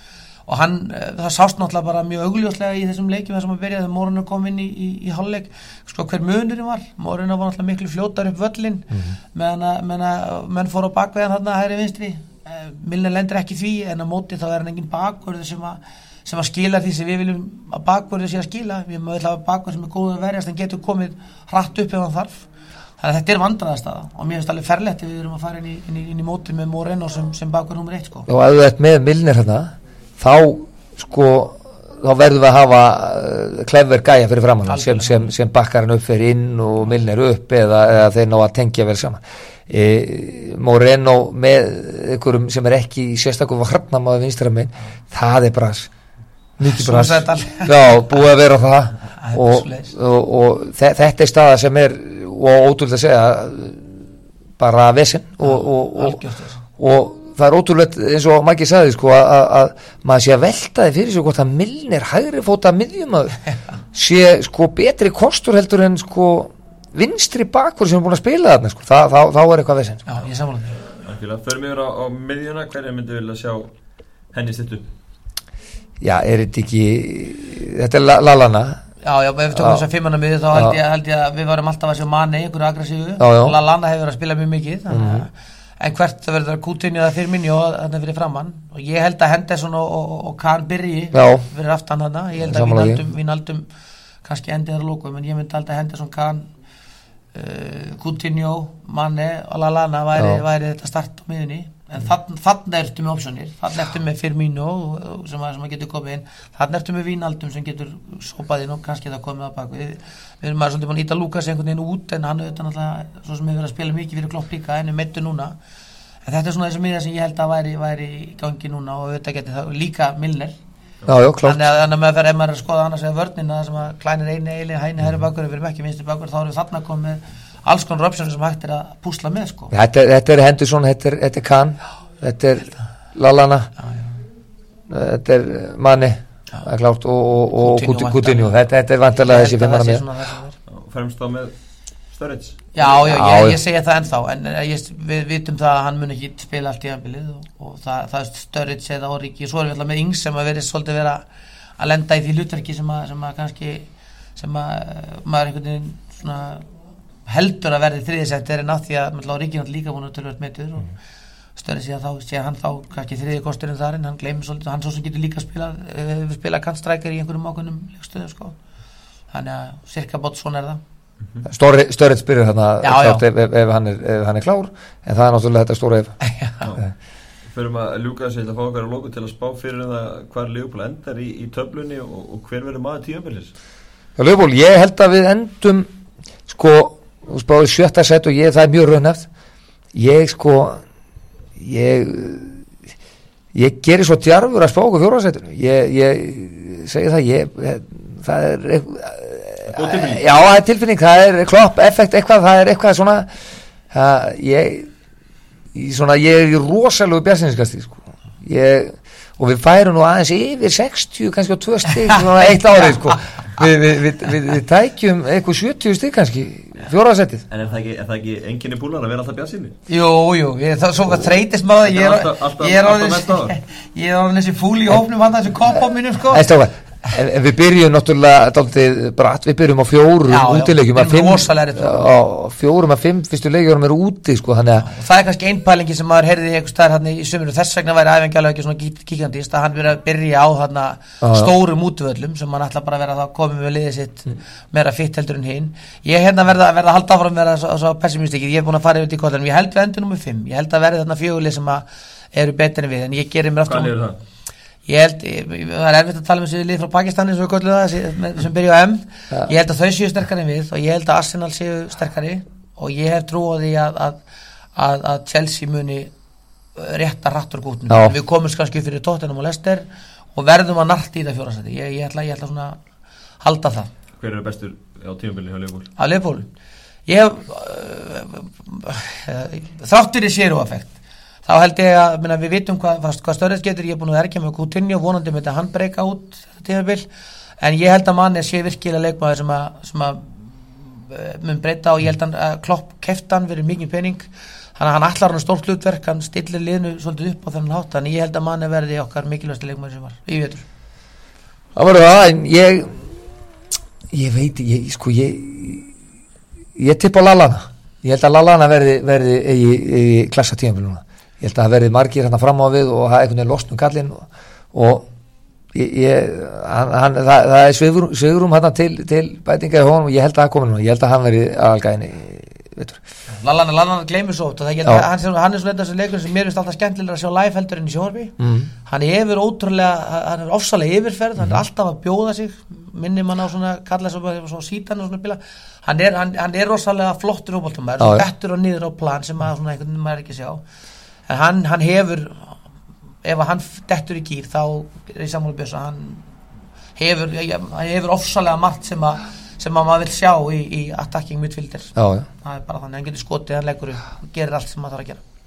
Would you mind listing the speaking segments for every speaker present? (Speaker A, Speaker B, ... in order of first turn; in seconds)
Speaker A: 0.5-22.4, 23.0-28.3, 34.7-35.3, 46.6-48.0, 49.2-49.9, 55.4-56.6, 70.0-70.8, 79.0-93.6, 94.2-96.5, 97.3-115.5, 116.2-120.5, 121.4-129.7, 137.6-138.5, 139.2-140.6, 142.7-151.2, 151.8-156.7, 157.2-160.9, 161.6-168.6, 169.3-170.8, 172.8-173.2, 176.2-176.7, 211.9-213.2, 219.9-226.5, 230.3-232.2, 234.8-253.9, 254.9-264.2, 264.8-266.1, 266.8-269.8, 270.4-272.8, 273.4-273.9, 276.0-276.5, 277.1-280.9, 281.4-287.0, 287.6-300.6, 323.3-340.6, 341.3-342.5, 343.2-346.2, 346.9-355.2
Speaker B: 28.3-45.9, 46.6-54.0, 54.6-56.2, 56.8-63.4, 63.9-70.0, 76.0-78.8, 79.5-79.8, 83.2-83.5, 84.9-85.2, 91.1-91.5, 92.5-93.0, 100.2-100.4, 121.1-121.6, 129.7-133.7, 134.9-140.0, 143.0-143.6, 171.5-176.2, 184.2-185.9, 186.5-189.2, 189.9-190.8, 191.6-192.6, 193.5-203.3, 203.9-204.9, 205.7-217.4, 226.3-234.9, 241.2-241.5, 267.9-268.1, 301.7-303.1, 304.1-305.9, 306.8-315.1, 315.7-323.0, 328.4-328.7, 338.0-338.3, 351.9-352.3
Speaker C: 71.0-73.7, 74.3-74.9, 140.7-141.5, 142.1-143.0, 177.5-183.5, 199.7-200.3, 217.5-219.7, 221.8-223.5, 253.7-254.2, 274.2-275.9